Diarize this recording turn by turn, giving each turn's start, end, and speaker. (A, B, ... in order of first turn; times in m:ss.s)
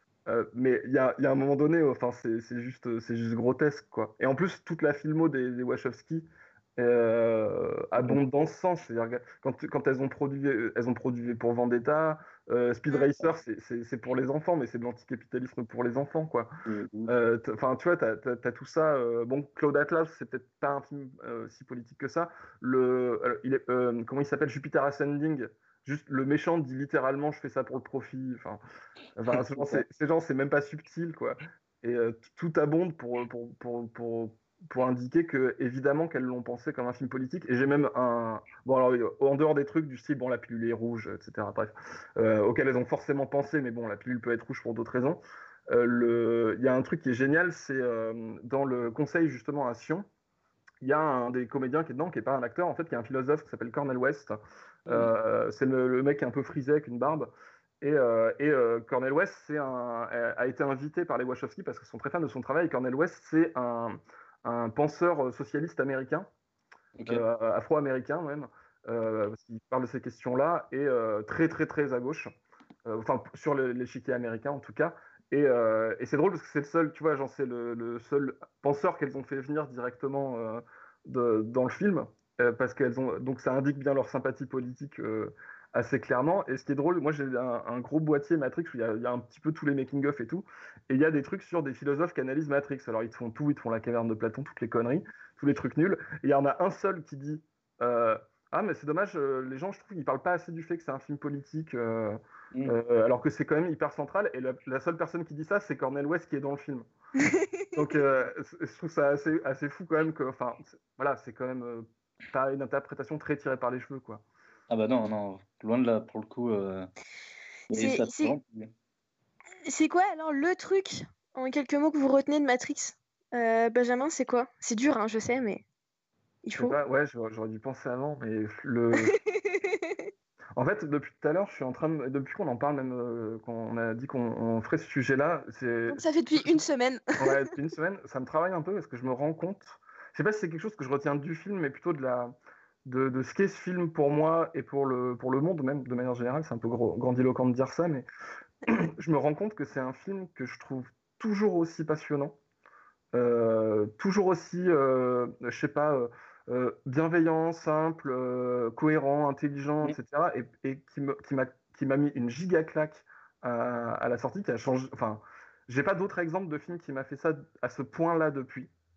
0:00.3-0:16.5 A
0:16.6-0:17.1 B
0:17.1-0:28.6 A
0:29.2-0:50.1 A
0:50.8-0:54.3 A
0:54.8-1:06.3 A
1:07.0-1:07.2 B
1:07.0-1:12.3 A
1:12.8-1:46.9 A
1:47.2-1:47.5 C
1:47.7-1:54.2 A
1:54.7-1:56.9 B
1:57.7-1:58.7 B
1:57.7-1:58.4 C
1:59.7-2:05.6 C
2:06.4-2:06.8 C
2:06.6-2:09.1 A
2:08.9-2:10.1 C
2:10.6-2:16.6 A
2:15.9-2:17.5 C
2:17.2-2:28.0 A
2:28.6-2:32.4 A
2:33.1-2:48.7 A